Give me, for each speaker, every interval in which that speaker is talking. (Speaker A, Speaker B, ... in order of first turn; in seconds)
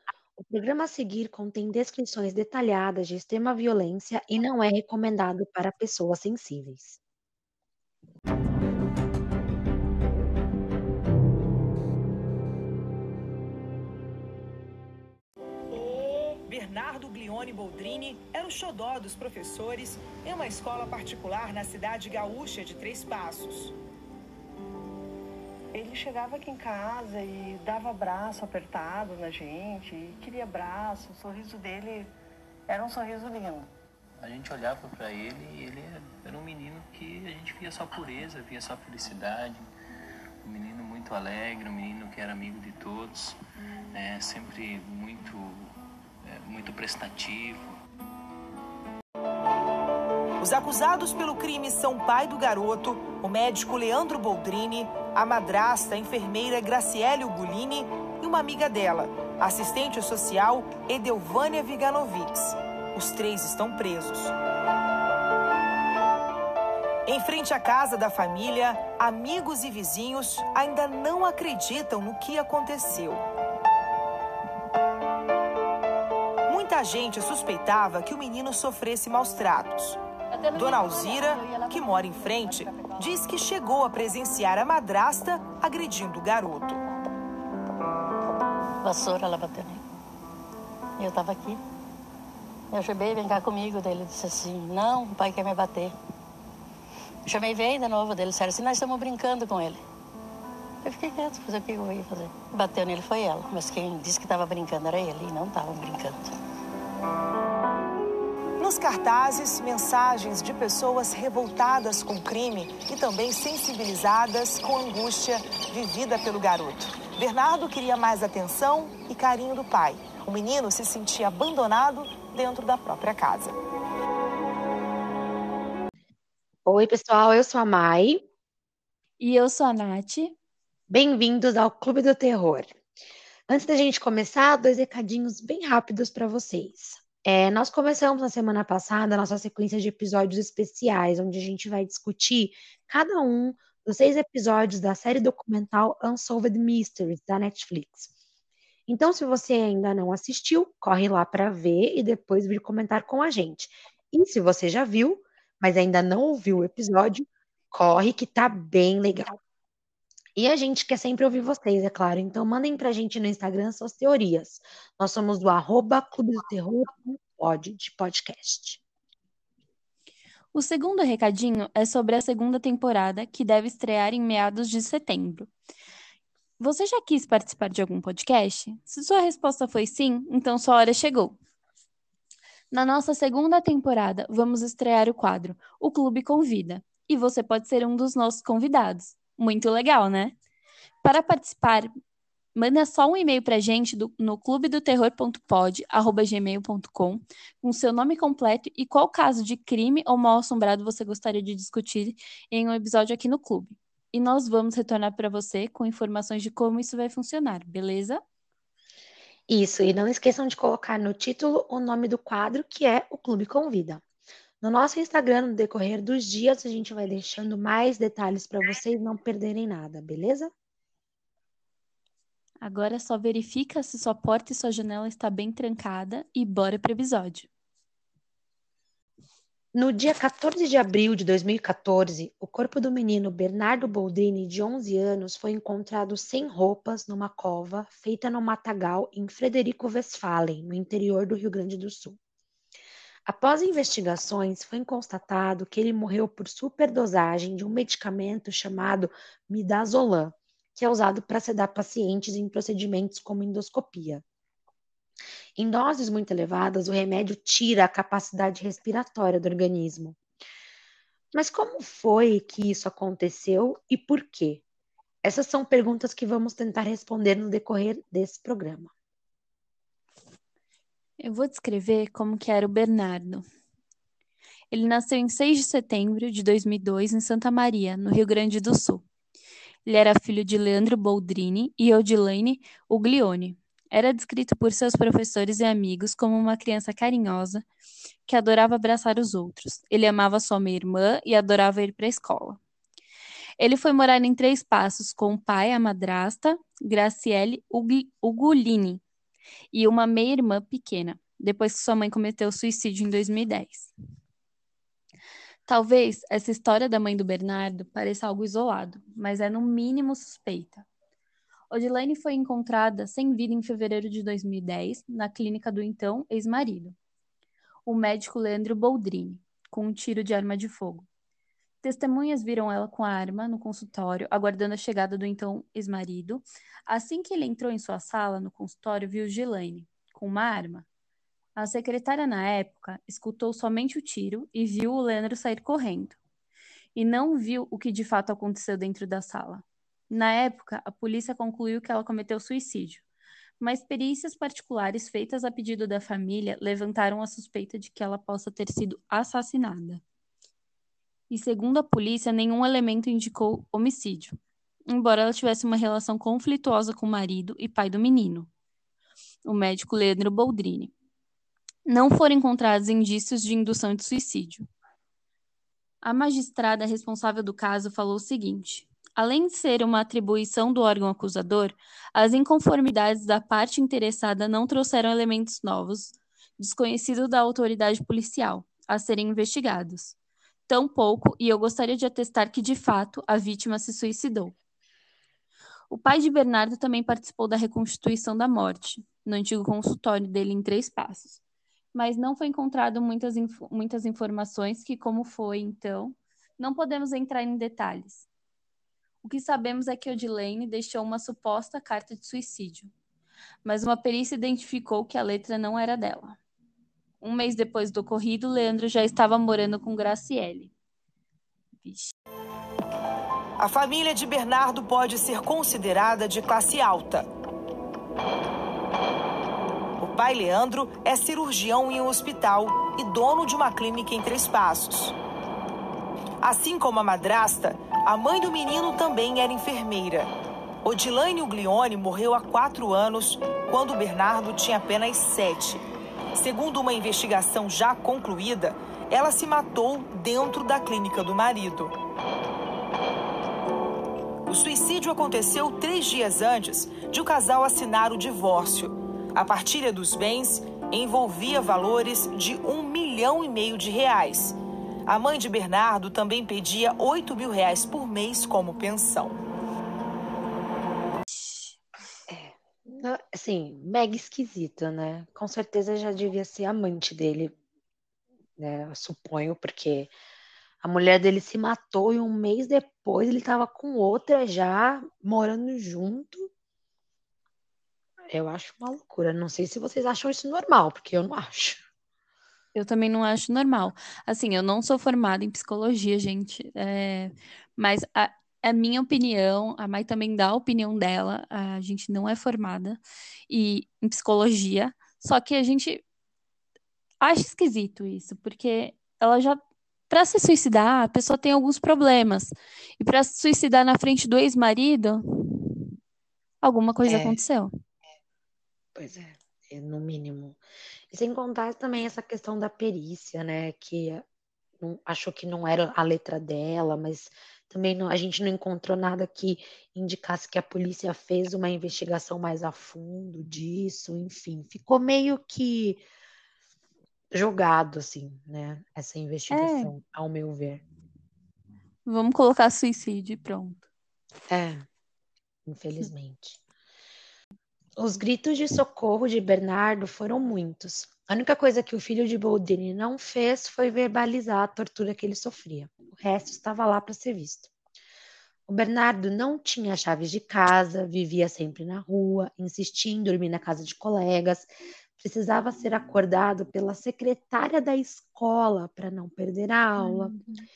Speaker A: 0.4-7.0, 126.7-128.2, 130.9-132.8, 133.5-148.1, 148.9-159.4, 160.4-168.8, 209.5-214.0, 214.6-220.5, 229.7-242.2, 243.3-254.2, 255.6-260.2, 261.3-264.6, 265.2-268.9, 462.3-467.6, 468.6-470.1, 470.8-476.5, 478.3-481.8, 507.1-507.4, 509.0-510.6, 511.1-514.2, 514.8-526.0, 527.3-530.8, 534.5-534.9, 535.7-536.6, 538.0-547.7, 548.7-560.3
Speaker B: 15.9-23.7, 50.4-64.3, 67.1-73.2, 76.5-80.0, 80.5-86.8, 108.6-123.6, 413.6-417.3, 420.0-425.2, 426.4-430.3, 430.8-435.8, 436.4-441.9, 444.5-459.4
Speaker C: 25.7-32.1, 32.7-33.7
Speaker D: 34.2-39.7, 40.4-43.4, 43.9-47.8
Speaker E: 88.8-89.8, 91.0-91.6, 92.7-96.0, 97.2-99.8, 100.8-106.3
Speaker F: 129.2-130.3, 170.5-175.5, 176.6-181.4, 182.7-190.3, 191.0-191.9, 192.6-208.2, 222.6-227.5, 271.2-273.4, 274.7-279.0, 279.9-287.6, 288.3-292.6, 293.6-299.0, 299.7-303.9, 305.7-310.9, 311.7-317.0, 317.9-321.1, 321.8-330.9, 331.6-336.2, 336.9-343.0, 343.6-350.0, 351.3-358.5, 359.4-360.9, 361.9-364.7, 366.0-380.1, 380.7-384.5, 385.9-391.4, 391.9-398.3, 399.2-402.9, 403.6-406.4, 407.2-410.7, 411.8-412.1, 461.3-461.8, 482.8-496.0, 497.2-505.9, 506.6-507.7, 529.5-529.9, 532.1-533.8, 560.0-560.6